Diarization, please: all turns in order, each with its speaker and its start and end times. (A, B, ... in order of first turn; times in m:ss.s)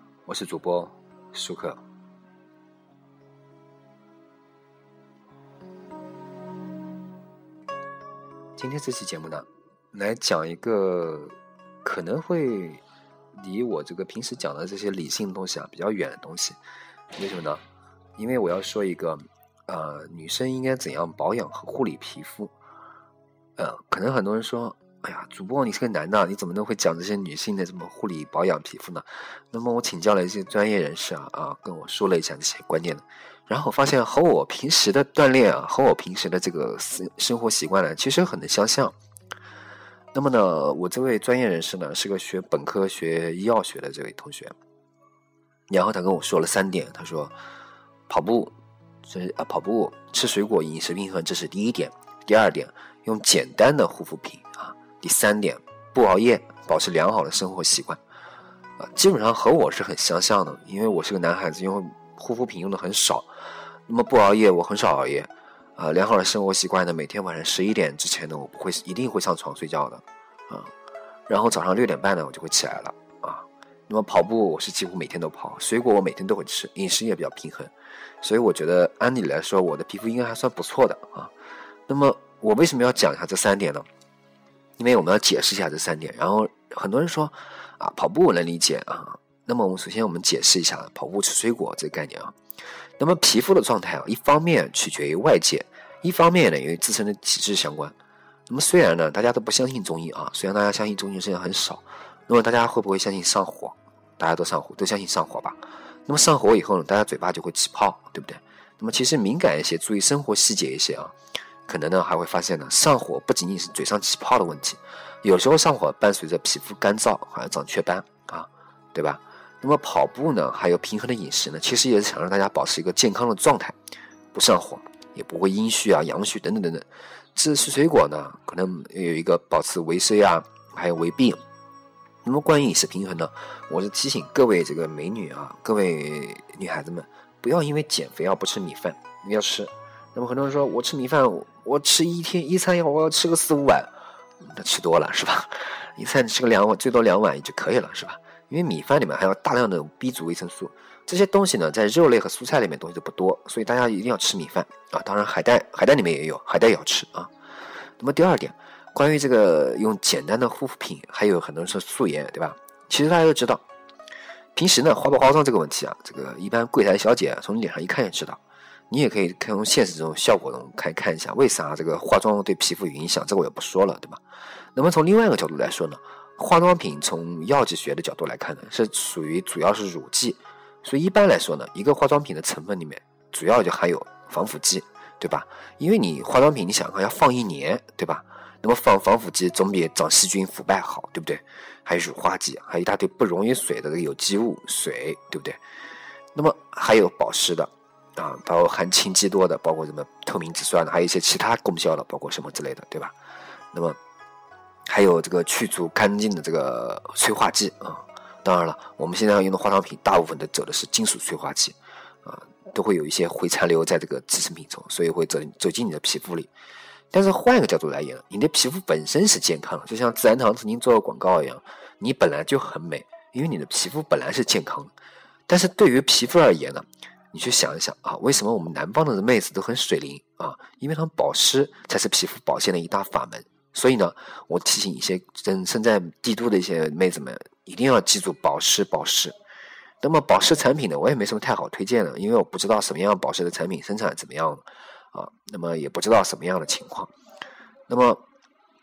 0:00.3-0:01.8 A
0:08.6-0:12.8 A
0:13.4-0:16.6 A
0:17.2-0:17.6 A
0:18.2-0:22.5 A
0:23.6-0:38.9 A
0:40.1-0:44.5 A
0:45.7-0:47.3 A
0:48.1-0:58.0 A
0:58.8-1:03.3 A
1:03.9-1:10.7 A
1:11.3-1:21.3 A
1:21.9-1:23.8 A
1:24.8-1:32.3 A
1:33.0-1:37.9 A
1:38.5-1:51.1 A
1:51.7-2:03.8 A
2:04.3-2:11.4 A
2:12.2-2:23.9 A
2:24.4-2:37.3 A
2:38.0-2:43.6 A
2:44.6-2:48.4 A
2:48.9-2:54.2 A
2:54.8-3:15.6 A
3:16.4-3:23.1 A
3:23.7-3:24.0 A
3:24.9-3:36.5 A
3:37.1-3:44.9 A
3:45.5-3:59.4 A
4:00.0-4:07.1 A
4:07.9-4:08.2 A